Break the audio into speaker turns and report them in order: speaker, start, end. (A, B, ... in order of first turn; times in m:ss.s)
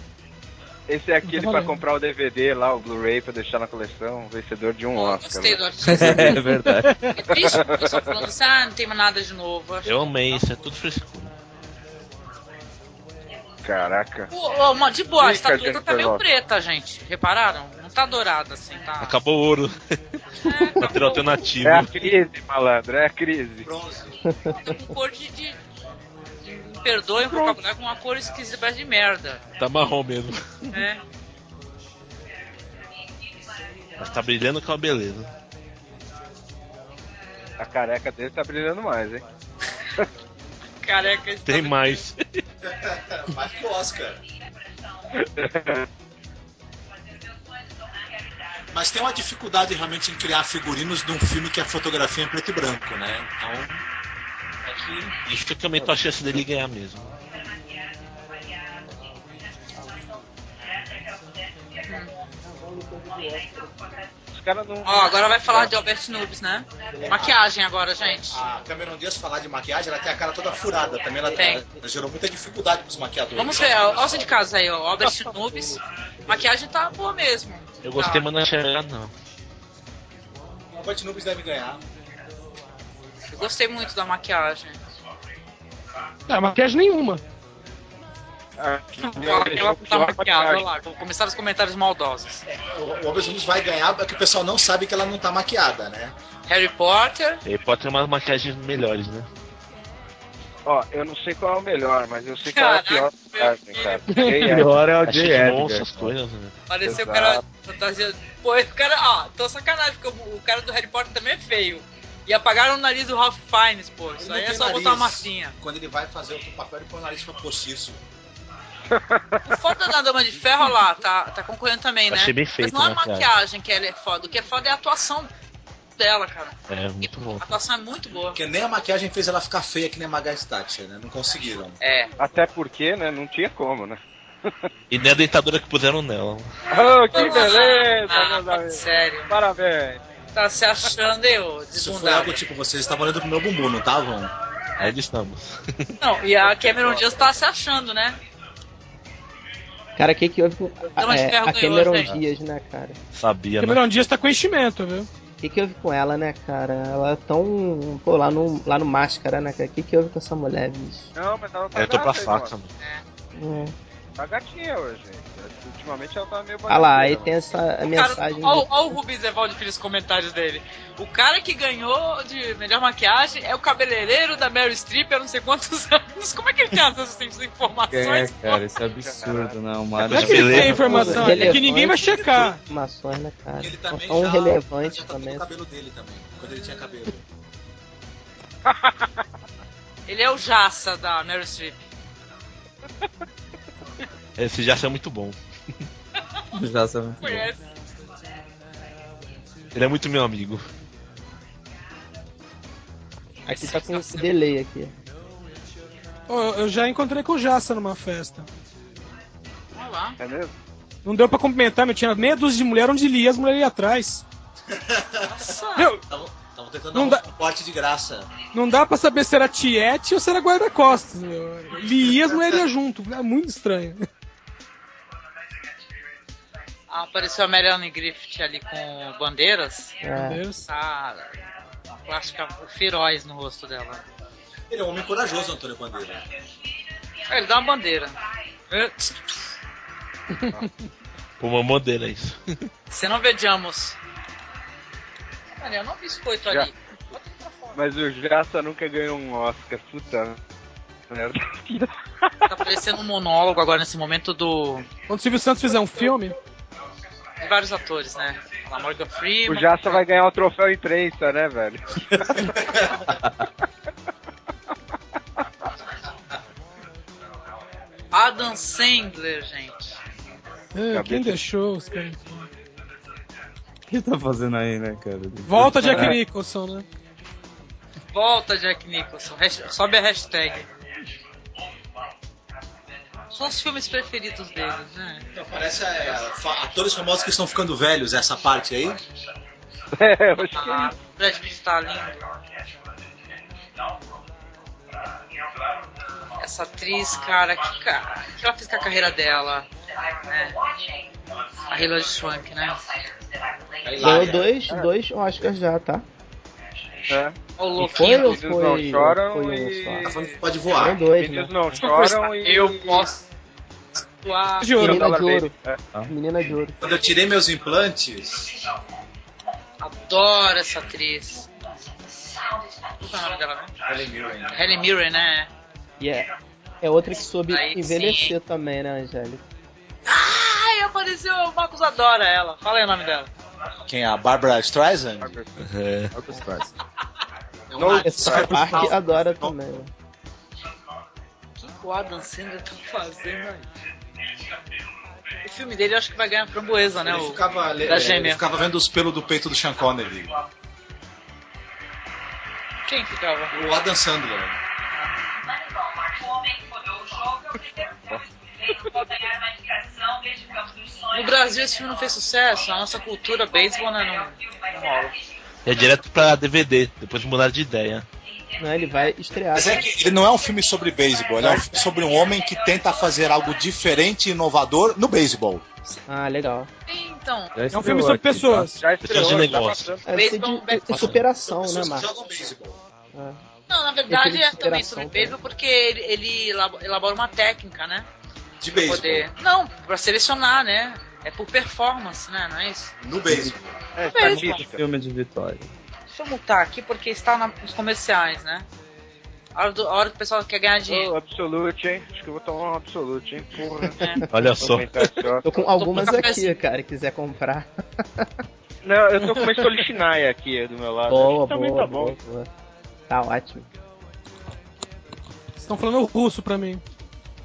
0:00.9-0:05.6 A
0:01.2-0:01.8 B
0:04.9-0:06.4 C
0:05.8-0:07.2 D
0:07.1-0:10.4 C
0:07.4-0:08.1 A
0:09.8-0:11.3 E
0:13.6-0:14.3 A
0:14.3-0:19.2 C
0:15.2-0:16.2 A
0:19.0-0:19.8 E
0:20.4-0:21.2 C
0:20.8-0:22.1 E
0:21.6-0:23.7 A
0:23.6-0:24.2 F
0:24.2-0:24.7 G
0:24.5-0:25.6 C
0:26.4-0:29.4 C
0:27.2-0:27.6 A
0:29.6-0:30.7 E
0:30.7-0:31.0 C
0:34.0-0:35.3 E
0:37.6-0:39.2 A
0:40.8-0:42.0 C
0:41.4-0:42.4 E
0:42.7-0:44.2 F
0:45.2-0:45.8 A
0:48.7-0:53.8 F
0:54.7-0:55.1 F
0:55.2-0:57.1 E
1:02.4-1:03.7 G
1:04.3-1:05.7 A
1:04.8-1:08.4 C
1:07.0-1:07.4 F
1:08.3-1:14.3 F
1:11.0-1:11.8 G
1:11.3-1:11.6 C
1:13.4-1:18.2 C
1:17.8-1:19.1 E
1:20.7-1:21.8 F
1:23.3-1:24.8 C
1:26.3-1:27.2 B
1:28.6-1:30.6 A
1:29.0-1:32.4 C
1:32.5-1:36.1 F
1:36.5-1:37.4 C
1:37.4-1:39.3 E
1:40.6-1:44.7 A
1:42.5-1:44.2 C
1:44.1-1:44.5 B
1:44.4-1:46.1 D
1:45.0-1:46.6 E
1:46.7-1:55.6 C
1:46.8-1:47.4 A
1:54.2-1:58.0 F
1:58.9-1:59.4 A
1:59.4-2:05.3 C
2:02.1-2:03.3 E
2:06.0-2:08.4 C
2:06.7-2:07.5 E
2:08.3-2:11.8 F
2:11.8-2:12.1 C
2:12.2-2:14.7 A
2:14.9-2:16.5 E
2:16.7-2:20.0 A
2:17.1-2:19.3 C
2:20.3-2:22.4 C
2:21.7-2:24.3 F
2:24.8-2:25.9 E
2:26.0-2:28.2 C
2:26.4-2:27.3 A
2:30.0-2:33.0 G
2:31.0-2:32.1 C
2:33.1-2:33.8 E
2:33.6-2:35.1 B
2:35.4-2:41.1 G
2:41.1-2:42.5 A
2:41.7-2:42.7 E
2:42.8-2:43.0 C
2:43.3-2:43.7 G
2:44.2-2:47.6 A
2:46.7-2:48.7 G
2:47.9-2:58.6 C
2:57.9-3:01.6 D
2:58.9-2:59.5 A
3:00.0-3:01.0 E
3:00.1-3:02.6 B
3:00.6-3:05.5 G
3:02.1-3:02.5 F
3:03.6-3:07.2 F
3:08.7-3:09.0 A
3:10.1-3:11.8 C
3:14.4-3:15.4 E
3:16.5-3:17.5 D
3:17.2-3:17.6 C
3:19.7-3:20.6 E
3:23.4-3:24.3 C
3:23.5-3:24.9 G
3:26.3-3:28.5 B
3:29.7-3:30.2 C
3:30.2-3:30.5 A
3:31.0-3:34.2 B
3:34.7-3:35.5 F
3:35.2-3:35.9 C
3:35.8-3:36.0 B
3:36.1-3:38.3 F
3:36.9-3:37.3 B
3:38.5-3:44.0 B
3:46.9-3:50.0 C
3:50.0-3:50.4 G
3:50.1-3:50.6 B
3:50.6-3:51.4 C
3:52.0-3:54.0 C
3:54.7-3:56.2 F
3:57.3-3:58.1 C
3:58.7-3:59.4 C
4:01.4-4:02.4 E
4:02.9-4:04.0 C
4:05.6-4:07.8 C
4:07.7-4:10.4 A
4:11.1-4:11.9 A
4:12.4-4:14.9 C
4:15.1-4:16.3 B
4:17.4-4:20.0 C
4:19.5-4:22.3 A
4:28.1-4:30.0 C
4:30.7-4:32.2 B
4:30.9-4:31.4 A
4:33.9-4:36.2 D
4:35.4-4:36.8 B
4:38.1-4:40.7 C
4:43.3-4:45.3 C
4:45.3-4:49.0 F
4:49.9-4:51.0 A
4:50.5-4:52.2 C
4:56.4-4:59.7 C
5:00.3-5:00.6 C
5:01.7-5:02.8 C
5:03.8-5:04.6 F
5:04.0-5:06.0 G
5:07.1-5:07.4 A
5:07.6-5:08.4 C
5:07.8-5:10.1 G
5:08.0-5:10.4 A
5:10.0-5:11.0 F
5:10.7-5:11.5 G
5:11.1-5:13.1 A
5:11.8-5:13.2 C
5:14.2-5:14.8 C
5:14.6-5:15.1 B
5:14.8-5:15.5 G
5:14.8-5:15.8 A
5:16.1-5:16.8 G
5:16.8-5:18.5 F
5:19.8-5:21.5 C
5:23.0-5:23.7 C
5:23.8-5:24.5 F
5:24.5-5:25.5 C
5:26.0-5:26.3 G
5:26.8-5:29.4 G
5:27.5-5:28.3 C
5:30.0-5:33.3 C
5:33.9-5:35.3 F
5:35.2-5:35.5 A
5:35.6-5:36.1 E
5:36.1-5:36.7 D
5:37.7-5:39.5 F
5:37.8-5:38.9 A
5:38.0-5:39.9 G
5:41.6-5:43.7 C
5:45.4-5:48.4 C
5:47.0-5:50.3 F
5:52.8-5:53.6 C
5:53.5-5:54.6 F
6:01.1-6:05.2 C
6:05.6-6:08.0 E
6:08.6-6:09.9 G
6:09.5-6:15.6 F
6:11.4-6:11.6 A
6:16.1-6:16.7 G
6:16.9-6:17.5 C
6:17.5-6:18.7 D
6:17.7-6:18.8 B
6:18.8-6:20.0 A
6:19.0-6:20.0 E
6:20.0-6:22.1 G
6:20.1-6:21.1 C
6:21.5-6:22.8 F
6:23.7-6:28.1 C
6:24.1-6:25.4 G
6:28.6-6:29.3 F
6:28.8-6:32.9 C
6:33.0-6:33.8 F
6:33.3-6:33.5 D
6:33.9-6:34.8 A
6:34.1-6:35.7 D
6:34.1-6:34.6 C
6:36.1-6:38.6 C
6:39.5-6:41.1 C
6:40.9-6:45.6 A
6:44.0-6:44.2 C
6:44.3-6:45.1 E
6:45.4-6:48.3 G
6:45.8-6:46.5 C
6:48.8-6:52.2 A
6:51.1-6:52.5 G
6:53.1-6:53.7 G
6:55.6-6:56.8 B